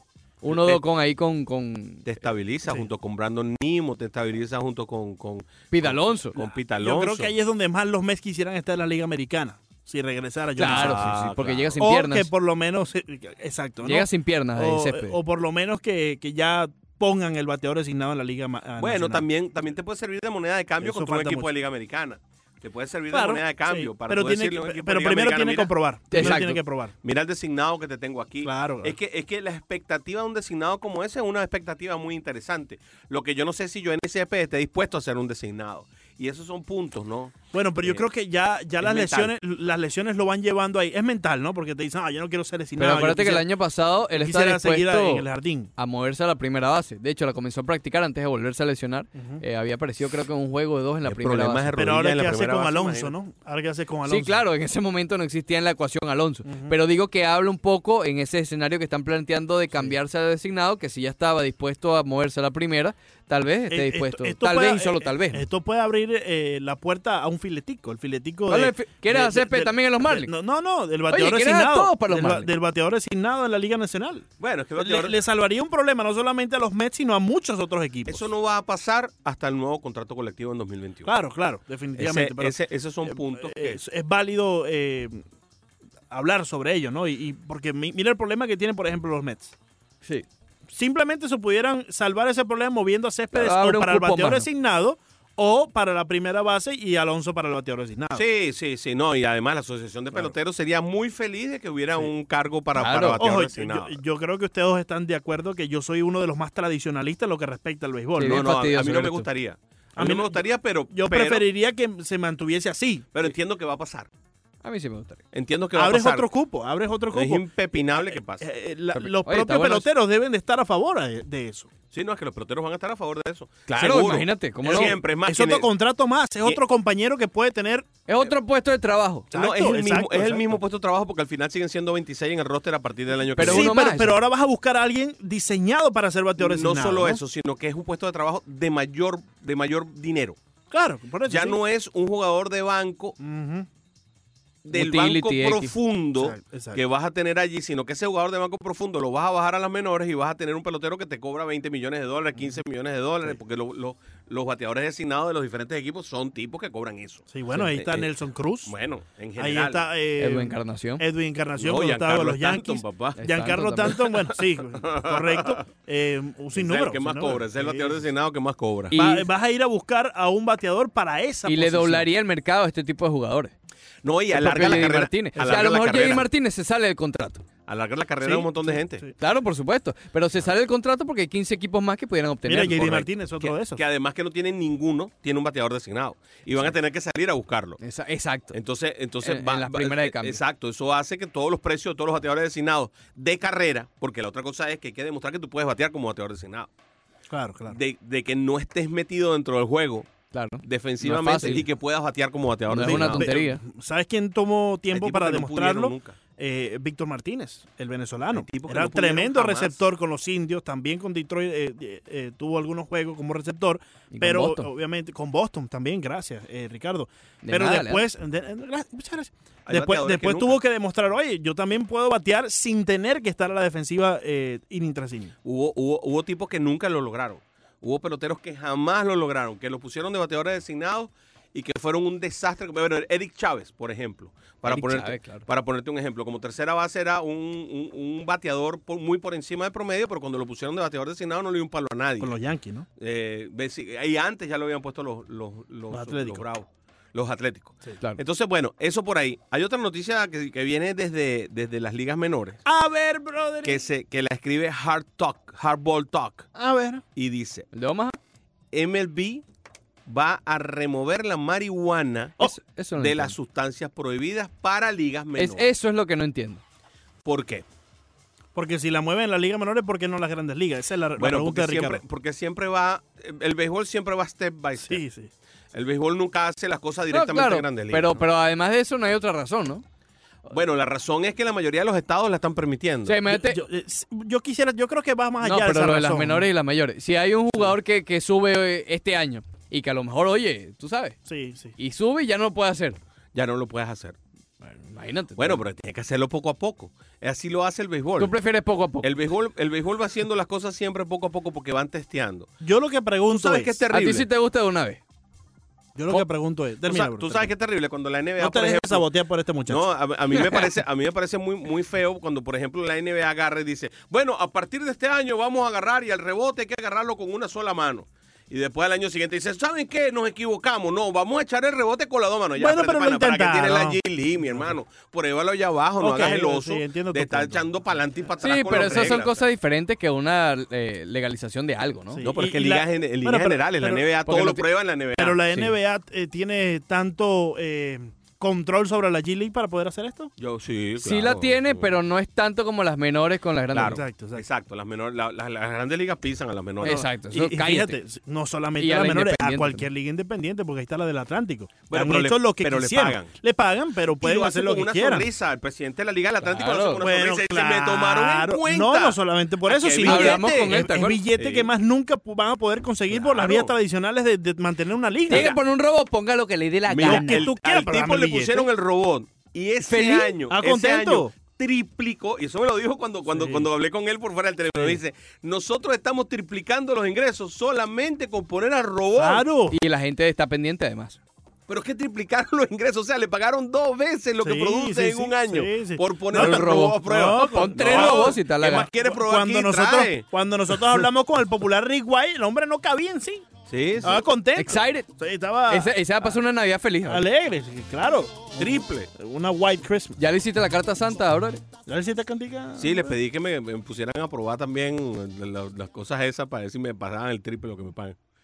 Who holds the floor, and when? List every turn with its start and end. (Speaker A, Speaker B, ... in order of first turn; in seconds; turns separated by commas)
Speaker A: 0.4-2.1, Speaker B: 0.5-0.8, Speaker B: 2.0-7.3, Speaker A: 5.7-6.4, Speaker C: 6.8-19.2, Speaker A: 10.6-12.3, Speaker B: 10.6-11.8, Speaker A: 13.8-15.2, Speaker B: 18.8-38.0, Speaker C: 20.8-21.5, Speaker C: 23.1-26.9, Speaker A: 26.1-26.6, Speaker C: 28.4-29.0, Speaker C: 37.5-43.5, Speaker B: 38.8-39.3, Speaker A: 42.8-51.8, Speaker C: 44.1-45.7, Speaker C: 49.1-49.4, Speaker B: 51.0-53.1, Speaker C: 51.7-54.4, Speaker A: 54.0-65.5, Speaker C: 56.5-56.7, Speaker C: 63.7-78.3, Speaker A: 68.5-70.3, Speaker A: 71.1-72.5, Speaker B: 74.4-75.2, Speaker B: 78.0-81.1, Speaker C: 81.0-85.2, Speaker B: 82.0-83.8, Speaker C: 86.1-89.5, Speaker C: 90.7-98.2, Speaker A: 93.3-94.5, Speaker B: 98.1-104.0, Speaker A: 102.7-103.2, Speaker C: 103.2-108.5, Speaker A: 108.2-109.3, Speaker B: 108.2-111.5, Speaker C: 110.0-113.1, Speaker B: 113.1-114.1, Speaker A: 114.6-115.2, Speaker B: 115.3-116.3, Speaker C: 115.7-117.4, Speaker B: 117.1-118.5, Speaker C: 118.0-121.7, Speaker A: 118.9-119.9, Speaker B: 121.9-125.7, Speaker A: 123.7-125.0, Speaker C: 124.6-127.9, Speaker A: 128.1-129.3, Speaker C: 129.3-130.6, Speaker B: 129.3-133.8, Speaker C: 133.3-137.2, Speaker A: 133.4-134.2, Speaker B: 136.4-140.4, Speaker C: 140.7-141.6, Speaker B: 141.2-143.2, Speaker C: 143.2-143.7, Speaker B: 144.6-158.1, Speaker A: 144.7-145.7, Speaker C: 146.2-146.8, Speaker C: 157.3-158.7, Speaker B: 158.6-159.8, Speaker C: 159.4-168.0, Speaker A: 160.2-161.0, Speaker B: 161.6-163.2, Speaker A: 163.2-164.0, Speaker B: 164.8-165.6, Speaker B: 166.5-169.1, Speaker A: 168.9-169.2, Speaker C: 168.9-172.1, Speaker A: 171.4-173.5, Speaker B: 174.0-176.3, Speaker A: 174.3-177.4, Speaker B: 177.7-179.0, Speaker C: 178.2-179.1, Speaker A: 179.2-183.1, Speaker C: 182.4-183.8, Speaker B: 183.4-187.8, Speaker A: 187.8-188.6, Speaker B: 188.5-196.7, Speaker A: 189.2-190.4, Speaker C: 197.3-197.8, Speaker B: 197.7-200.1, Speaker A: 200.3-201.7, Speaker B: 200.6-203.3, Speaker A: 202.7-203.6, Speaker C: 202.8-225.3, Speaker B: 204.9-206.2, Speaker B: 208.3-209.8, Speaker A: 214.1-214.7, Speaker A: 217.4-218.0, Speaker B: 219.7-220.6, Speaker B: 225.4-242.3, Speaker A: 234.7-235.4, Speaker C: 242.2-242.8, Speaker B: 243.0-252.6, Speaker C: 245.9-246.4, Speaker C: 252.7-253.8, Speaker B: 253.6-256.5, Speaker C: 256.5-257.0, Speaker B: 257.1-257.7, Speaker A: 257.7-258.2, Speaker B: 258.7-259.4, Speaker B: 260.1-262.4, Speaker A: 262.4-263.4, Speaker B: 263.0-265.7, Speaker A: 265.4-266.6, Speaker B: 267.2-267.6, Speaker C: 268.5-272.0, Speaker B: 271.2-275.0, Speaker C: 274.8-275.3, Speaker B: 275.7-278.2, Speaker A: 277.1-279.8, Speaker B: 280.5-283.2, Speaker A: 283.1-283.6, Speaker C: 283.3-286.5, Speaker A: 285.4-291.2, Speaker C: 291.2-291.8, Speaker A: 291.8-293.0, Speaker B: 293.3-294.2, Speaker A: 294.6-295.6, Speaker B: 295.4-298.3, Speaker A: 298.2-299.1, Speaker B: 299.0-302.5, Speaker C: 302.6-303.8, Speaker B: 303.3-304.3, Speaker A: 303.9-305.0, Speaker C: 305.9-307.5, Speaker B: 306.8-309.1, Speaker C: 308.4-309.9, Speaker B: 309.7-329.4, Speaker A: 310.3-310.7, Speaker C: 322.6-324.8, Speaker C: 326.0-327.8, Speaker A: 328.4-332.2, Speaker C: 332.1-340.3, Speaker B: 332.2-335.5, Speaker B: 340.4-341.9, Speaker A: 341.0-344.0, Speaker B: 343.7-347.1, Speaker C: 343.8-344.4, Speaker A: 346.8-348.0, Speaker C: 346.8-355.3, Speaker A: 348.8-349.8, Speaker B: 351.9-353.3, Speaker B: 354.2-360.8, Speaker A: 356.4-357.0, Speaker C: 357.0-365.5, Speaker A: 360.0-361.2, Speaker B: 361.4-361.7, Speaker B: 363.1-363.7, Speaker A: 365.3-367.5, Speaker B: 365.3-365.6, Speaker B: 366.9-379.4, Speaker C: 367.0-368.7, Speaker A: 369.9-370.3, Speaker C: 370.5-371.3, Speaker C: 373.3-373.7, Speaker C: 379.2-379.8, Speaker A: 379.7-381.2, Speaker B: 381.7-390.3, Speaker C: 384.4-388.4, Speaker A: 386.3-388.9, Speaker C: 389.0-393.4, Speaker B: 393.7-394.2, Speaker C: 394.0-395.9, Speaker A: 394.5-395.1, Speaker A: 395.7-397.2, Speaker C: 397.0-400.2, Speaker B: 398.6-399.1, Speaker A: 400.2-401.6, Speaker C: 401.9-403.1, Speaker B: 402.8-408.1